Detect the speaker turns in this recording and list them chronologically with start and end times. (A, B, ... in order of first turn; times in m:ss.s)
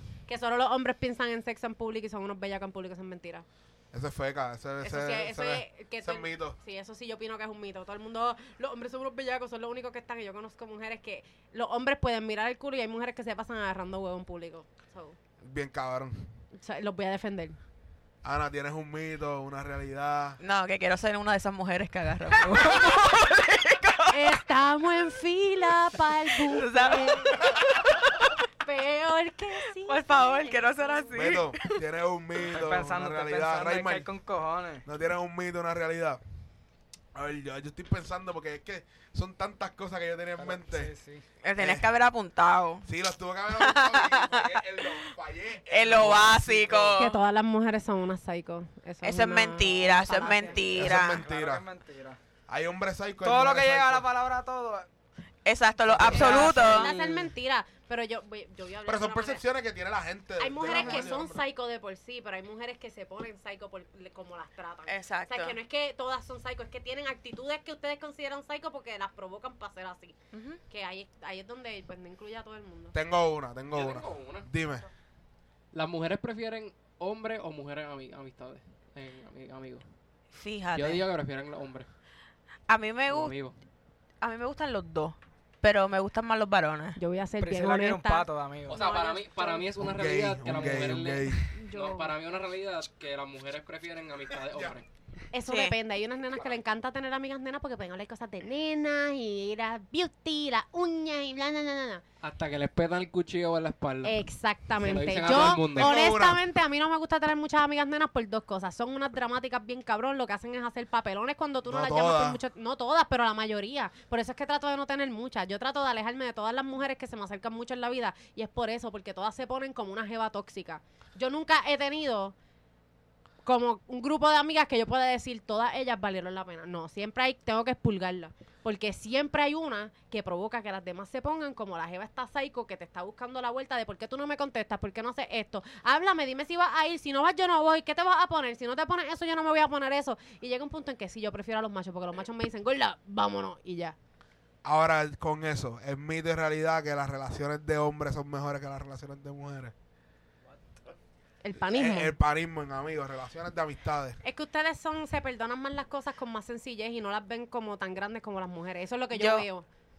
0:00.3-0:03.4 A
0:03.9-0:06.6 B
0:04.8-0:15.2 A
0:15.4-0:16.3 B
0:16.5-0:17.6 A
0:18.2-0:20.4 B
0:20.4-0:24.4 C
0:24.1-0:27.5 A
0:26.3-0:28.3 C
0:28.6-0:31.2 A
0:29.8-0:31.8 C
0:31.1-0:34.1 B
0:32.4-0:34.8 D
0:34.8-0:36.2 B
0:37.1-0:40.9 B
0:40.4-0:41.2 D
0:41.4-0:42.9 C
0:41.6-0:41.9 B
0:42.8-0:47.0 B
0:43.5-0:44.9 C
0:45.7-0:47.2 C
0:47.0-0:50.8 A
0:49.0-0:51.2 C
0:50.7-0:51.6 B
0:50.8-0:52.2 D
0:52.5-0:54.1 B
0:53.2-0:54.9 D
0:55.4-0:56.9 C
0:55.9-0:56.5 B
0:56.0-0:56.8 D
0:56.0-0:59.4 A
0:56.5-0:56.9 E
0:58.8-1:01.4 B
1:00.4-1:10.2 A
1:00.6-1:01.1 C
1:04.9-1:05.6 C
1:10.3-1:10.6 C
1:10.7-1:13.0 A
1:12.9-1:14.8 B
1:13.7-1:14.5 E
1:15.7-1:19.8 E
1:20.3-1:21.0 C
1:20.7-1:21.9 E
1:22.7-1:23.3 C
1:23.1-1:23.5 E
1:24.2-1:27.0 C
1:27.0-1:29.8 A
1:27.4-1:28.8 D
1:28.7-1:34.9 E
1:29.8-1:31.4 B
1:31.4-1:32.2 A
1:35.3-1:42.0 A
1:35.4-1:35.8 C
1:42.2-1:44.2 E
1:44.0-2:02.3 A
1:44.7-1:46.0 E
1:45.4-1:46.4 B
1:51.6-1:52.4 B
2:03.4-2:24.0 A
2:24.6-2:29.7 B
2:31.4-2:32.1 A
2:31.7-2:34.2 B
2:34.2-2:39.7 A
2:39.1-2:39.5 C